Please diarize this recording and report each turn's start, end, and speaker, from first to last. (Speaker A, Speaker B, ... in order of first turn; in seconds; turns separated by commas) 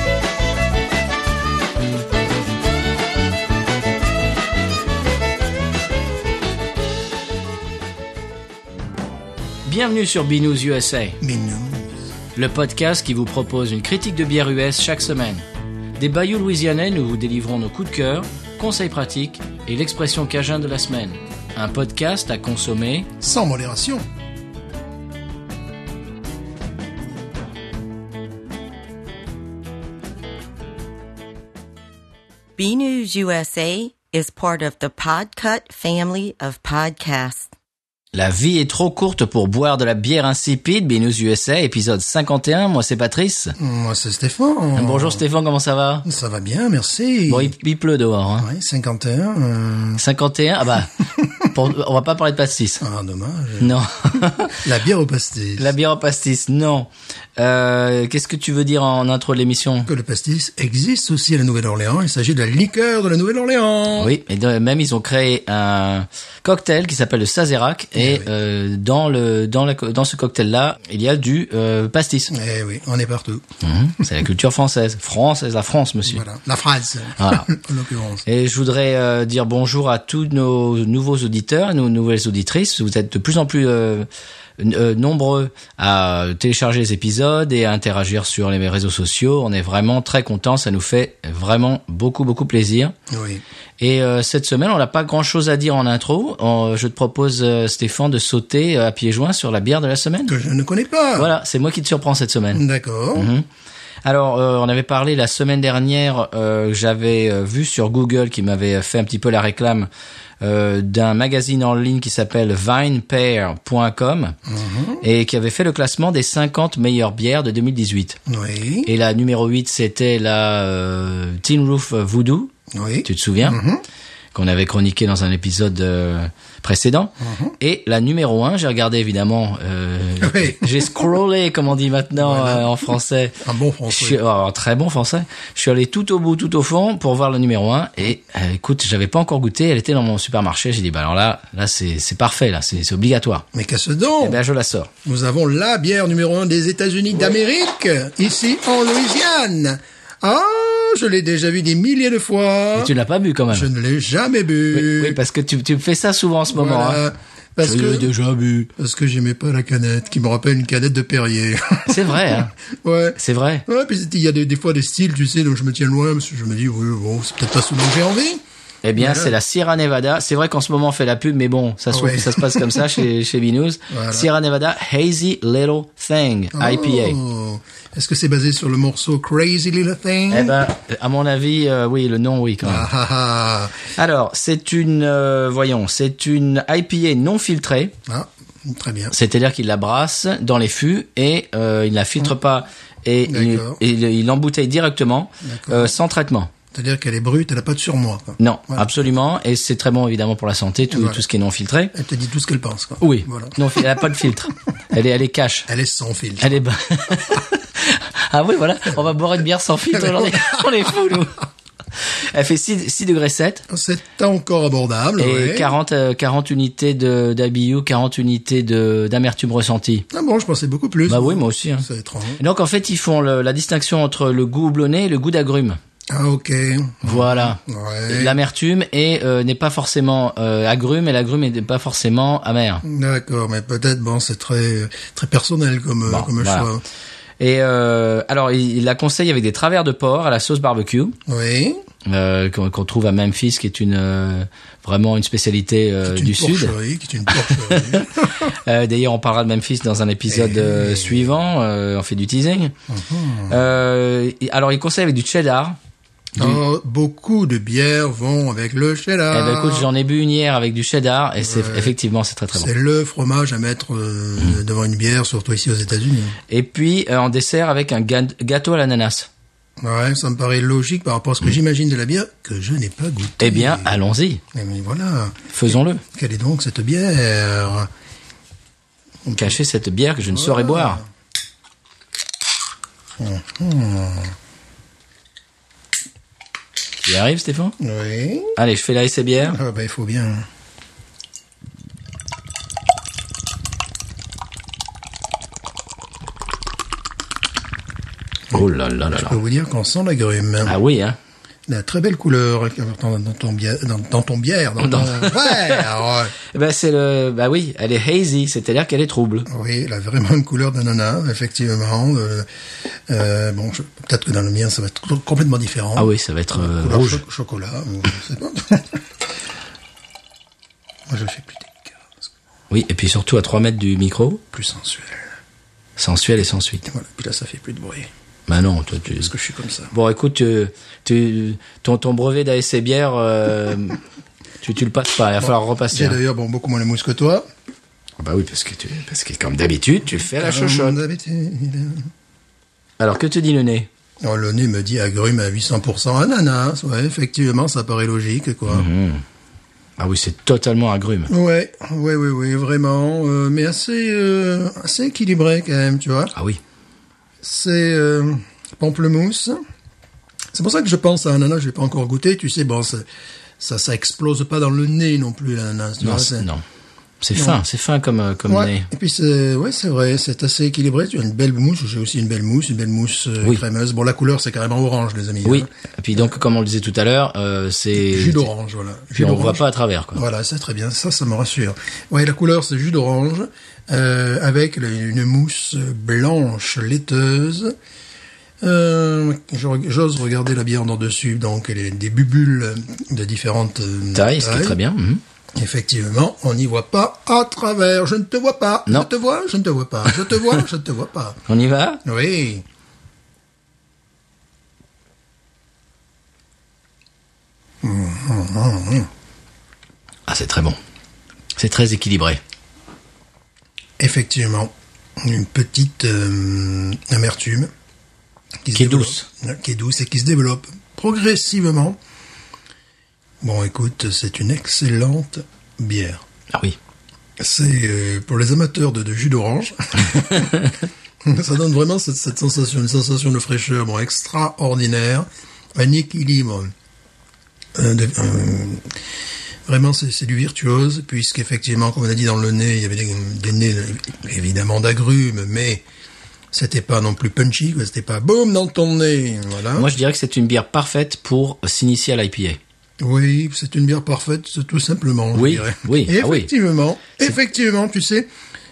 Speaker A: 9.7-11.2, Speaker B: 11.2-11.9, Speaker A: 12.3-15.4, Speaker A: 16.0-23.1, Speaker B: 23.2-24.1, Speaker C: 32.6-37.5, Speaker A: 38.1-43.5, Speaker B: 43.6-45.2, Speaker A: 44.8-46.0, Speaker B: 46.0-47.5, Speaker A: 47.3-48.5, Speaker B: 48.4-50.0, Speaker A: 50.0-52.8, Speaker B: 51.2-51.5, Speaker B: 52.8-55.7, Speaker A: 53.6-54.6, Speaker A: 55.6-59.9, Speaker B: 59.9-64.1, Speaker A: 63.9-72.3, Speaker B: 67.9-68.3, Speaker B: 72.3-73.4, Speaker A: 73.6-76.2, Speaker B: 76.0-78.2, Speaker A: 77.2-77.5, Speaker A: 78.2-84.1, Speaker A: 84.6-92.9, Speaker B: 93.1-93.4, Speaker A: 93.8-100.3, Speaker B: 100.2-101.3, Speaker A: 101.2-102.6, Speaker B: 102.5-103.3, Speaker A: 103.1-103.5, Speaker A: 104.0-109.9, Speaker A: 110.4-114.3, Speaker B: 114.5-115.0, Speaker A: 115.0-118.2, Speaker B: 118.3-118.9, Speaker A: 118.8-122.5, Speaker B: 122.7-123.8, Speaker A: 123.0-123.6, Speaker A: 124.3-133.3, Speaker B: 127.2-127.5, Speaker B: 130.2-131.1, Speaker B: 132.1-132.8, Speaker B: 133.4-134.2, Speaker A: 133.9-143.4, Speaker B: 143.5-144.4, Speaker A: 144.2-144.9, Speaker B: 145.0-152.9, Speaker A: 152.7-153.7, Speaker B: 153.5-155.2, Speaker A: 154.7-157.0, Speaker B: 156.5-158.1, Speaker A: 157.6-158.7, Speaker B: 158.8-168.4, Speaker A: 161.9-162.5, Speaker A: 163.2-163.6, Speaker A: 168.8-177.2, Speaker B: 169.0-169.3, Speaker B: 171.9-173.0, Speaker B: 173.9-174.3, Speaker B: 176.5-180.6, Speaker A: 180.3-182.9, Speaker B: 182.6-183.9, Speaker A: 183.9-187.9, Speaker B: 188.1-189.1, Speaker A: 189.1-196.5, Speaker B: 193.3-193.8, Speaker B: 195.4-195.9, Speaker B: 196.7-198.9, Speaker A: 198.4-201.9, Speaker B: 200.9-201.2, Speaker B: 201.9-204.1, Speaker A: 203.0-205.7, Speaker B: 205.7-206.6, Speaker A: 206.4-211.4, Speaker B: 209.9-210.9, Speaker A: 212.3-213.6, Speaker B: 213.7-215.7, Speaker A: 215.2-220.1, Speaker B: 220.1-222.4, Speaker A: 221.1-221.8, Speaker A: 222.4-225.8, Speaker B: 226.1-228.4, Speaker A: 227.0-232.8, Speaker B: 232.8-236.8, Speaker A: 236.1-236.7, Speaker A: 237.4-241.2, Speaker B: 241.3-241.8, Speaker A: 242.1-246.7, Speaker B: 246.0-248.3, Speaker A: 247.3-252.7, Speaker B: 250.3-251.2, Speaker B: 252.9-253.6, Speaker A: 253.5-255.8, Speaker B: 256.4-259.9, Speaker A: 259.3-262.7, Speaker B: 261.4-261.9, Speaker B: 262.5-266.4, Speaker A: 266.5-269.3, Speaker B: 269.8-273.9, Speaker A: 273.4-274.4, Speaker B: 274.5-275.5, Speaker A: 275.5-276.0, Speaker B: 276.1-277.9, Speaker B: 279.2-279.6, Speaker A: 279.3-281.0, Speaker B: 280.2-281.0, Speaker B: 283.2-284.3, Speaker A: 287.0-287.8, Speaker B: 287.8-288.6, Speaker A: 288.6-289.6, Speaker B: 289.4-290.5, Speaker A: 298.5-299.4, Speaker B: 298.5-300.8, Speaker A: 300.6-301.2, Speaker B: 301.7-306.3, Speaker A: 304.8-305.9, Speaker A: 306.5-309.5, Speaker B: 309.5-319.0, Speaker A: 315.9-317.2, Speaker B: 321.1-322.3, Speaker A: 322.7-324.4, Speaker B: 324.5-325.3, Speaker A: 326.0-326.8, Speaker B: 326.8-328.1, Speaker A: 328.5-329.3, Speaker B: 329.0-329.9, Speaker A: 329.9-334.0, Speaker A: 334.6-336.2, Speaker B: 335.4-337.4, Speaker A: 338.2-341.0, Speaker B: 340.4-342.1, Speaker A: 343.0-343.9, Speaker B: 344.2-348.9, Speaker A: 348.7-349.2, Speaker A: 350.0-351.3, Speaker B: 351.3-356.3, Speaker A: 356.3-356.6, Speaker B: 357.4-359.6, Speaker B: 360.5-363.0, Speaker B: 363.6-366.5, Speaker A: 366.0-366.6, Speaker A: 367.2-368.9, Speaker B: 367.3-367.6, Speaker B: 368.5-376.2, Speaker A: 375.4-378.5, Speaker B: 377.9-387.7, Speaker A: 379.1-380.2, Speaker B: 388.6-394.8, Speaker A: 394.1-395.2, Speaker B: 395.5-401.4, Speaker A: 401.5-402.0, Speaker B: 402.0-402.6, Speaker B: 407.8-409.1, Speaker A: 410.3-410.8, Speaker A: 411.6-412.4, Speaker B: 414.0-417.7, Speaker B: 418.6-422.0, Speaker A: 418.7-419.2, Speaker B: 423.4-426.2, Speaker B: 427.4-430.7, Speaker B: 431.2-436.7, Speaker B: 437.8-438.9, Speaker B: 439.6-445.8, Speaker B: 446.5-449.9, Speaker A: 449.8-452.6, Speaker B: 453.0-458.3, Speaker A: 455.3-456.5